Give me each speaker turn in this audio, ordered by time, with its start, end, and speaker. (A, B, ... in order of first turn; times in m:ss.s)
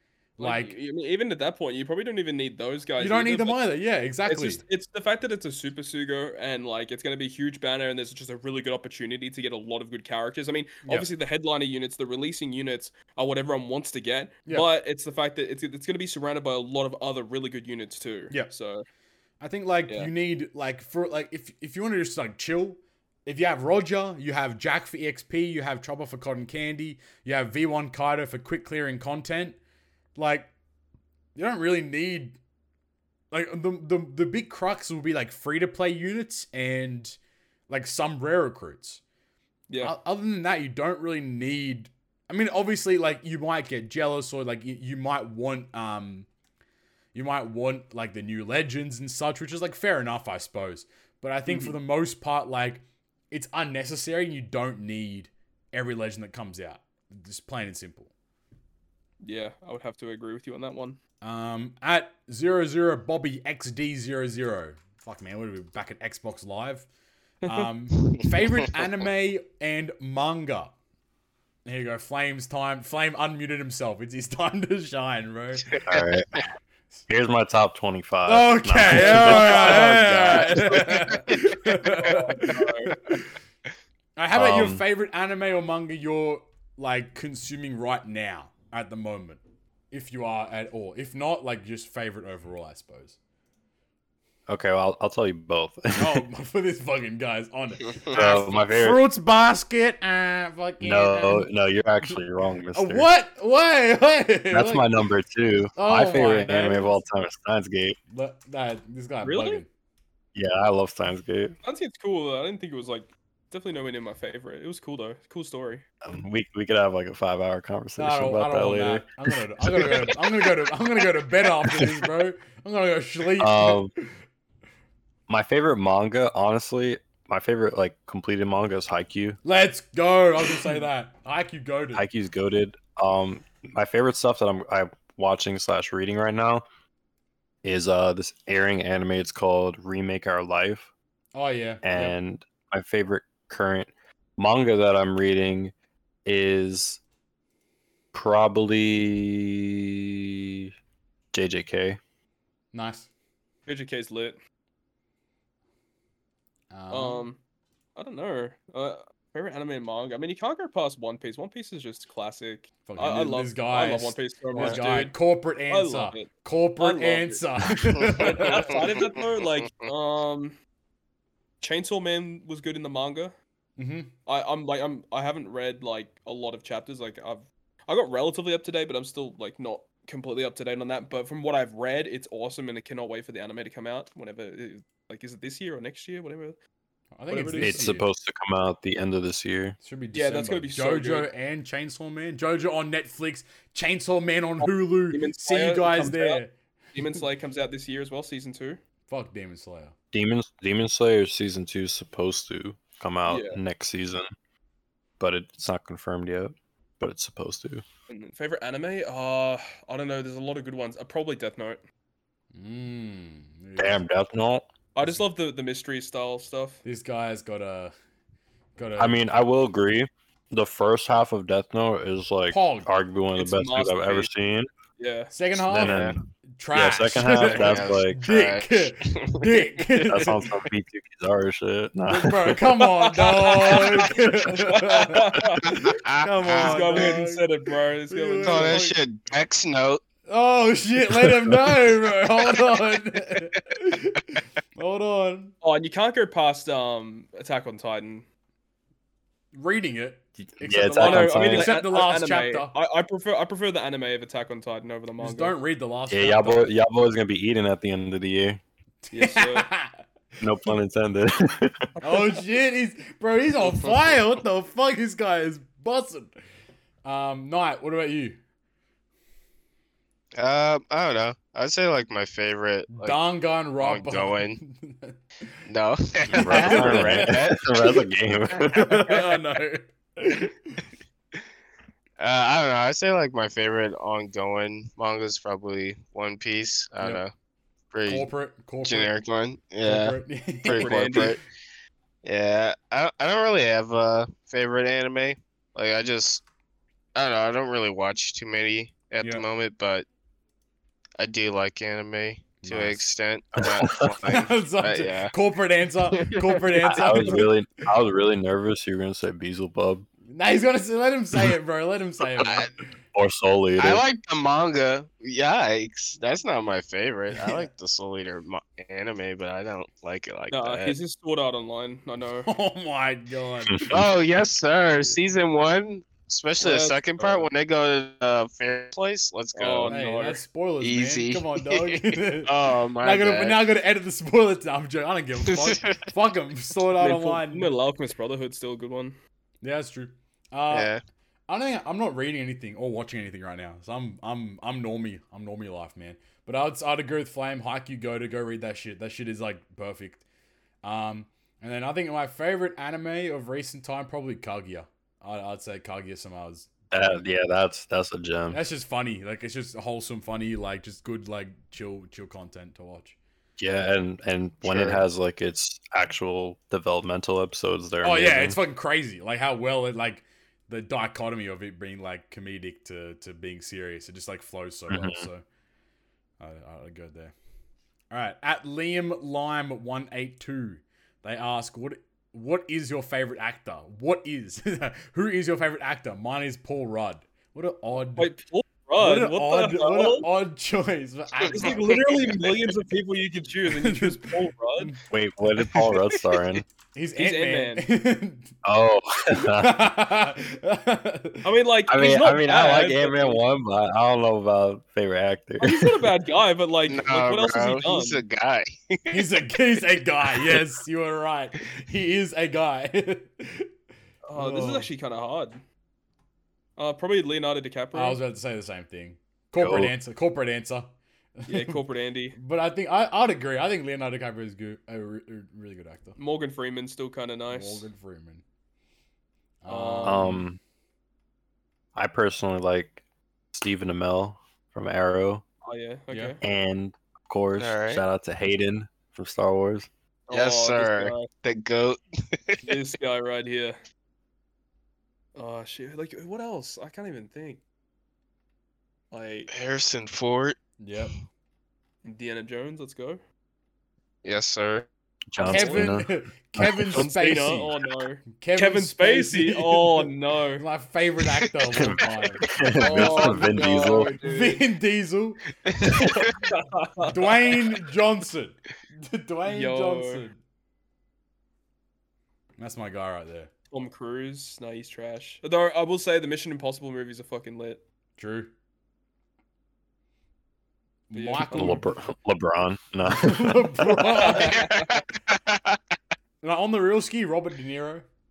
0:00.4-0:00.8 A
0:00.4-0:03.6 B
0:03.0-0:04.6 A
0:04.2-0:18.9 B
0:19.4-0:29.6 A
0:30.2-0:30.5 A
0:31.4-0:32.4 A
0:33.3-0:37.2 A
0:37.7-0:39.0 A
0:39.7-0:39.9 B
0:39.8-0:46.3 A
0:47.1-0:58.1 A
0:51.5-0:51.8 B
0:59.2-1:01.0 B
1:01.2-1:06.9 A
1:07.4-1:07.7 B
1:07.5-1:10.8 A
1:08.0-1:08.7 C
1:11.6-1:15.7 A
1:15.7-1:16.4 C
1:15.9-1:16.5 D
1:17.1-1:20.9 D
1:18.3-1:23.3 A
1:18.9-1:21.6 C
1:21.8-1:23.0 B
1:24.2-1:33.2 A
1:24.3-1:24.8 D
1:34.5-1:36.2 D
1:36.0-1:41.5 A
1:37.8-1:38.2 C
1:38.1-1:39.0 D
1:40.8-1:43.1 D
1:42.7-1:44.9 A
1:44.5-1:48.0 D
1:45.8-1:47.0 A
1:48.1-1:49.7 A
1:49.2-1:49.6 B
1:50.4-1:51.5 D
1:51.6-1:55.8 B
1:56.0-1:59.1 D
1:58.0-2:04.1 A
2:03.4-2:03.9 D
2:05.3-2:09.4 D
2:09.4-2:12.0 A
2:12.0-2:16.6 D
2:17.6-2:20.9 D
2:21.3-2:22.2 A
2:21.8-2:25.7 D
2:26.2-2:27.0 D
2:28.1-2:30.7 D
2:31.3-2:32.0 D
2:32.7-2:33.1 A
2:33.7-2:34.4 B
2:36.7-2:37.2 A
2:36.9-2:37.4 B
2:38.0-2:45.2 B
2:42.9-2:48.9 A
2:45.7-2:50.6 B
2:47.9-2:49.7 C
2:51.6-2:53.4 B
2:53.8-2:54.1 A
2:54.3-3:06.6 B
3:07.2-3:08.1 A
3:07.3-3:07.9 B
3:07.6-3:09.8 D
3:09.8-3:16.5 A
3:10.1-3:11.3 B
3:14.6-3:16.4 B
3:16.9-3:18.8 B
3:19.1-3:19.9 A
3:20.1-3:24.3 D
3:23.3-3:23.6 B
3:25.2-3:27.8 D
3:28.1-3:31.8 B
3:32.5-3:34.0 A
3:33.8-3:34.7 D
3:35.0-3:36.8 B
3:36.8-3:37.9 A
3:38.8-3:39.2 A
3:39.0-3:44.7 D
3:42.5-3:42.9 A
3:43.4-3:44.3 B
3:45.0-3:45.3 B
3:45.3-3:50.5 A
3:45.6-3:48.2 D
3:45.7-3:46.2 C
3:47.3-3:50.4 C
3:50.1-3:52.6 D
3:52.1-3:57.4 A
3:52.8-3:58.8 B
3:53.2-3:57.2 C
3:58.1-3:59.0 A
3:58.4-4:00.0 C
4:00.3-4:05.5 A
4:05.6-4:08.2 B
4:09.5-4:12.7 A
4:10.6-4:11.7 D
4:10.9-4:15.5 B
4:15.2-4:16.7 A
4:16.1-4:18.6 D
4:19.1-4:19.9 A
4:19.1-4:19.7 B
4:20.4-4:21.9 D
4:22.0-4:26.3 A
4:27.0-4:28.4 A
4:30.4-4:33.2 C
4:32.9-4:35.2 A
4:33.8-4:34.6 C
4:35.7-4:38.0 C
4:36.3-4:38.8 D
4:36.4-4:37.5 A
4:38.5-4:39.4 C
4:38.7-4:40.8 A
4:42.2-4:47.3 C
4:47.9-4:48.3 C
4:48.1-4:49.1 A
4:48.8-4:51.4 C
4:49.8-4:51.4 A
4:50.7-4:51.4 B
4:52.2-4:56.4 C
4:57.2-5:00.1 C
5:01.2-5:05.3 C
5:02.6-5:03.0 A
5:03.6-5:04.1 D
5:04.2-5:07.5 A
5:06.1-5:07.5 C
5:06.9-5:10.1 D
5:10.3-5:12.7 A
5:12.4-5:12.7 C
5:13.2-5:14.0 D
5:13.8-5:21.0 C
5:17.3-5:17.7 A
5:20.5-5:22.5 B
5:22.5-5:24.0 A
5:23.9-5:30.0 C
5:26.6-5:27.5 B
5:29.6-5:30.4 B
5:29.9-5:37.7 A
5:30.8-5:33.6 C
5:35.5-5:36.0 C
5:37.0-5:39.2 B
5:39.6-5:40.9 A
5:40.7-5:41.0 C
5:41.5-5:50.2 A
5:50.8-5:57.3 A
5:56.9-5:58.6 D
5:58.5-6:03.2 A
6:03.6-6:08.6 D
6:04.7-6:05.0 A
6:08.0-6:15.4 A
6:14.9-6:15.2 D
6:16.4-6:17.3 A
6:18.1-6:28.3 A
6:28.2-6:30.3 B
6:29.0-6:32.5 A
6:31.4-6:32.0 C
6:31.5-6:34.9 B
6:33.7-6:35.0 A
6:35.1-6:36.6 D
6:37.0-6:38.5 A
6:37.2-6:37.8 B
6:38.6-6:39.7 D
6:39.4-6:41.5 A
6:41.4-6:43.4 B
6:41.9-6:46.1 D
6:45.6-6:48.2 B
6:46.9-6:49.3 C
6:49.1-6:53.7 A
6:54.3-6:55.6 B
6:54.4-6:54.9 A
6:56.8-6:58.2 B
6:57.9-7:01.8 A
6:59.6-6:59.9 D
7:01.5-7:02.4 B
7:02.4-7:06.2 A
7:06.2-7:07.9 B
7:07.5-7:08.4 A
7:09.6-7:10.4 A
7:09.7-7:10.4 B
7:10.0-7:10.6 D
7:12.0-7:13.0 D
7:13.5-7:15.4 D
7:15.6-7:16.4 B
7:16.1-7:16.4 A
7:16.4-7:19.9 D
7:17.6-7:18.0 C
7:20.3-7:21.3 B
7:20.3-7:22.8 C
7:22.6-7:23.8 B
7:25.4-7:27.6 B
7:29.1-7:29.5 B
7:29.5-7:31.1 C
7:30.8-7:31.1 A
7:32.0-7:33.2 B
7:34.2-7:34.9 C
7:35.3-7:37.0 D
7:35.4-7:35.9 B
7:35.5-7:37.8 A
7:36.9-7:40.6 B
7:38.3-7:46.3 A
7:41.3-7:42.1 C
7:41.8-7:44.1 D
7:42.8-7:44.6 B
7:45.7-7:46.4 C
7:46.4-7:47.6 B
7:47.0-7:50.4 A
7:49.5-7:50.2 B
7:52.6-7:53.5 A
7:53.7-7:57.8 B
7:58.2-7:58.5 A
8:01.1-8:02.0 A
8:01.1-8:01.9 B
8:01.5-8:04.0 D
8:03.0-8:04.7 A
8:04.1-8:05.8 C
8:04.2-8:05.0 B
8:06.4-8:08.1 A